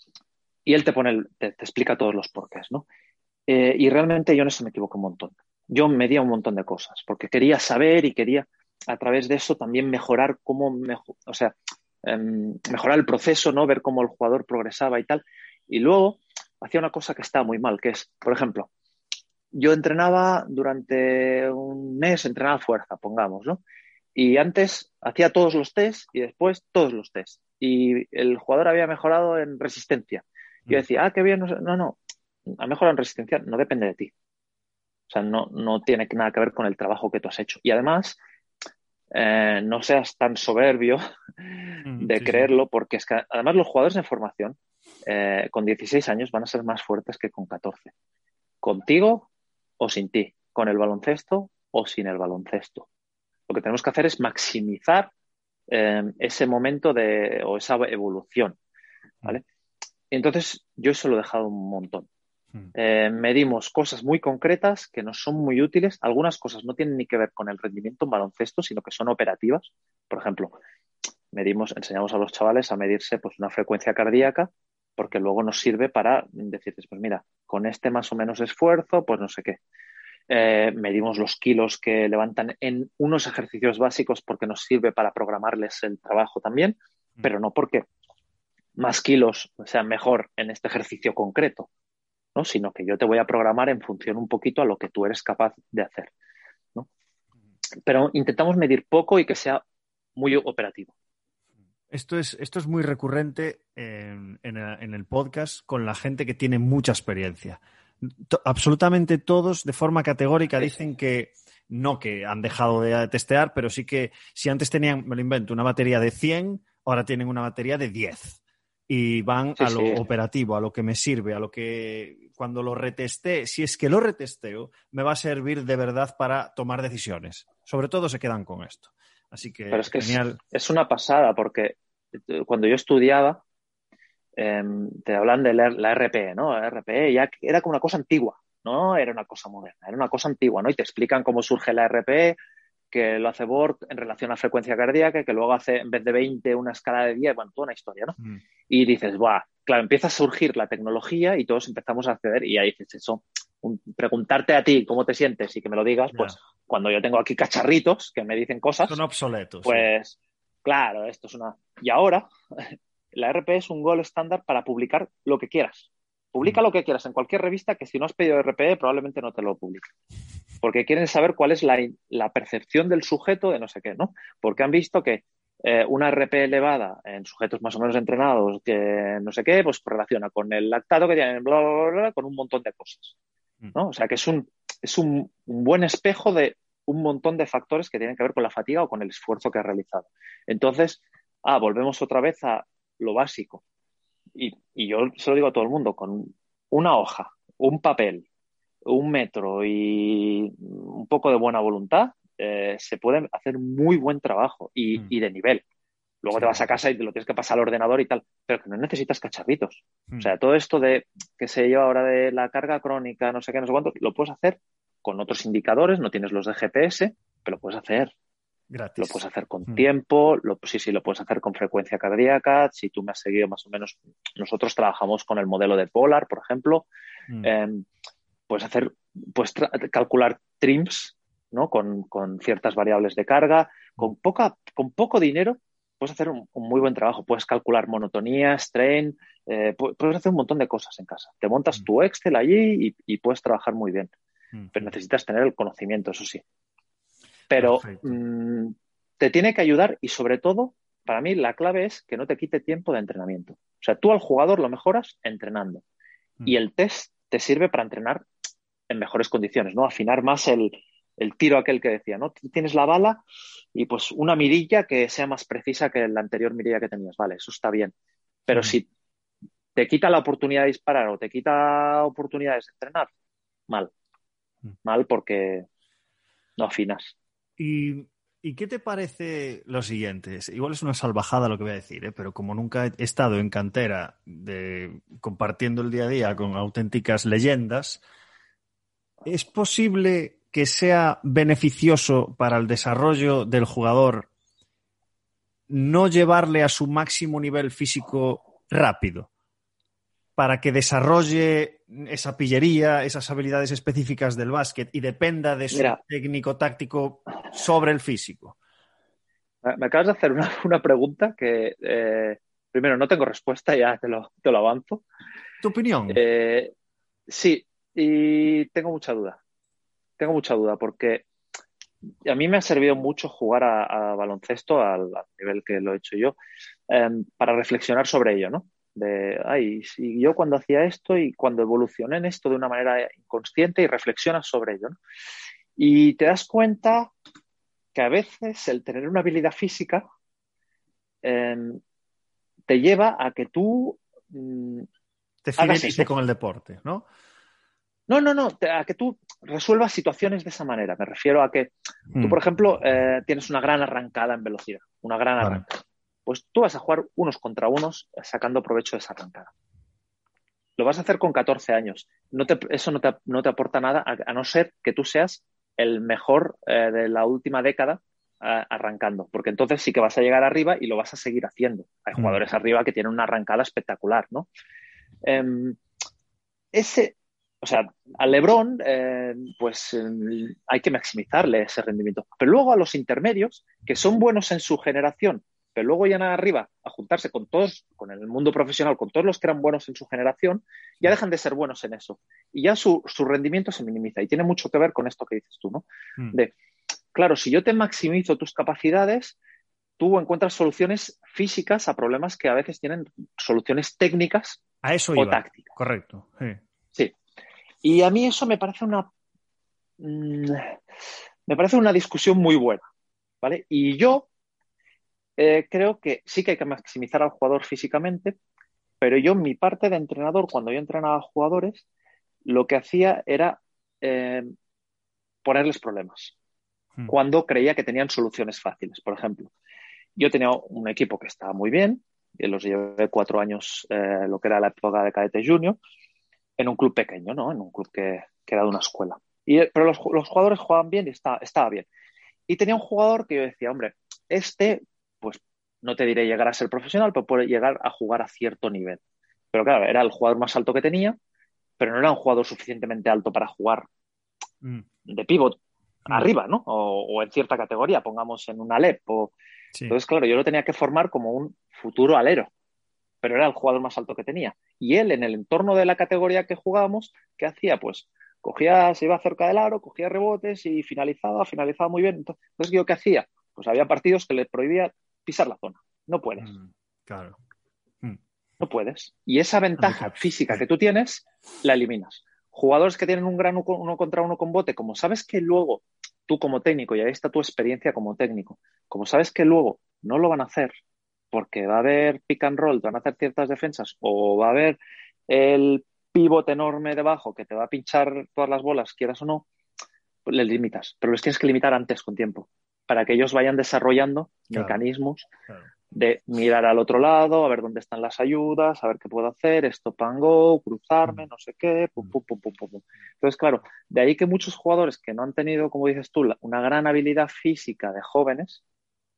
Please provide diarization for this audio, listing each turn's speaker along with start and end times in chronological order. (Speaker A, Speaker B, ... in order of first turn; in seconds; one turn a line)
Speaker A: 0.7-2.8
Speaker A: 3.5-18.7
Speaker A: 19.5-23.6
Speaker A: 24.1-34.1
Speaker A: 35.1-38.2
Speaker A: 39.1-47.9
Speaker B: 41.8-42.5
Speaker A: 48.6-52.9
Speaker A: 53.5-55.1
Speaker A: 55.7-58.6
Speaker A: 60.1-62.1
Speaker A: 62.7-70.6
Speaker A: 71.3-79.6
Speaker A: 80.3-87.9
Speaker A: 88.8-91.7
Speaker A: 92.3-96.1
Speaker A: 97.8-99.6
Speaker A: 100.2-100.9
Speaker B: 101.9-130.4
Speaker A: 119.6-120.0
Speaker A: 129.7-133.4
Speaker A: 134.3-142.3
Speaker A: 142.9-148.2
Speaker A: 148.7-159.0
Speaker B: 158.8-159.9
Speaker A: 159.6-162.3
Speaker A: 163.1-169.9
Speaker A: 170.6-183.1
Speaker A: 183.7-193.6
Speaker A: 194.3-198.3
Speaker A: 198.8-205.6
Speaker A: 206.2-218.1
Speaker B: 206.3-206.7
Speaker B: 218.7-219.8
Speaker A: 219.0-226.9
Speaker A: 227.4-227.8
Speaker A: 228.5-244.1
Speaker B: 244.5-244.9
Speaker A: 244.7-246.4
Speaker A: 247.5-255.8
Speaker B: 247.6-248.1
Speaker A: 256.4-258.2
Speaker A: 258.9-263.2
Speaker A: 263.7-267.9
Speaker B: 268.5-268.7
Speaker A: 268.5-268.9
Speaker A: 269.7-273.1
Speaker A: 274.8-275.6
Speaker A: 276.6-277.1
Speaker B: 277.6-288.0
Speaker B: 289.2-294.3
Speaker B: 295.7-299.3
Speaker B: 300.4-308.6
Speaker A: 305.7-306.0
Speaker A: 309.6-315.0
Speaker B: 315.6-316.2
Speaker A: 316.1-316.7
Speaker A: 317.3-319.4
Speaker A: 320.2-321.2
Speaker A: 322.2-326.4
Speaker A: 326.9-335.0
Speaker A: 335.8-337.1
Speaker A: 337.9-340.0
Speaker A: 341.2-341.8
Speaker A: 342.7-344.9
Speaker B: 345.4-347.1
Speaker A: 345.6-346.1
Speaker A: 348.1-359.5
Speaker B: 352.1-352.4
Speaker A: 360.8-374.5
Speaker B: 372.1-372.4
Speaker A: 375.2-375.8
Speaker A: 376.7-396.5
Speaker A: 397.1-399.4
Speaker A: 400.0-404.6
Speaker B: 404.8-406.6
Speaker A: 405.1-405.7
Speaker A: 407.8-409.1
Speaker A: 410.0-410.8
Speaker A: 411.5-412.8
Speaker A: 413.4-414.3
Speaker A: 415.4-418.4
Speaker A: 419.0-421.8
Speaker A: 422.4-424.5
Speaker A: 425.4-426.3
Speaker A: 427.1-429.5
Speaker A: 430.1-435.8
Speaker A: 436.6-441.9
Speaker A: 442.5-449.0
Speaker A: 449.5-451.2
Speaker A: 451.8-453.9
Speaker A: 455.1-455.6
Speaker A: 456.1-459.3
Speaker A: 459.9-462.5
Speaker A: 463.2-476.5
Speaker B: 476.4-477.4
Speaker A: 478.6-490.7
Speaker B: 479.8-480.6
Speaker A: 491.3-499.5
Speaker A: 500.2-505.3
Speaker B: 504.5-504.8
Speaker A: 505.9-518.6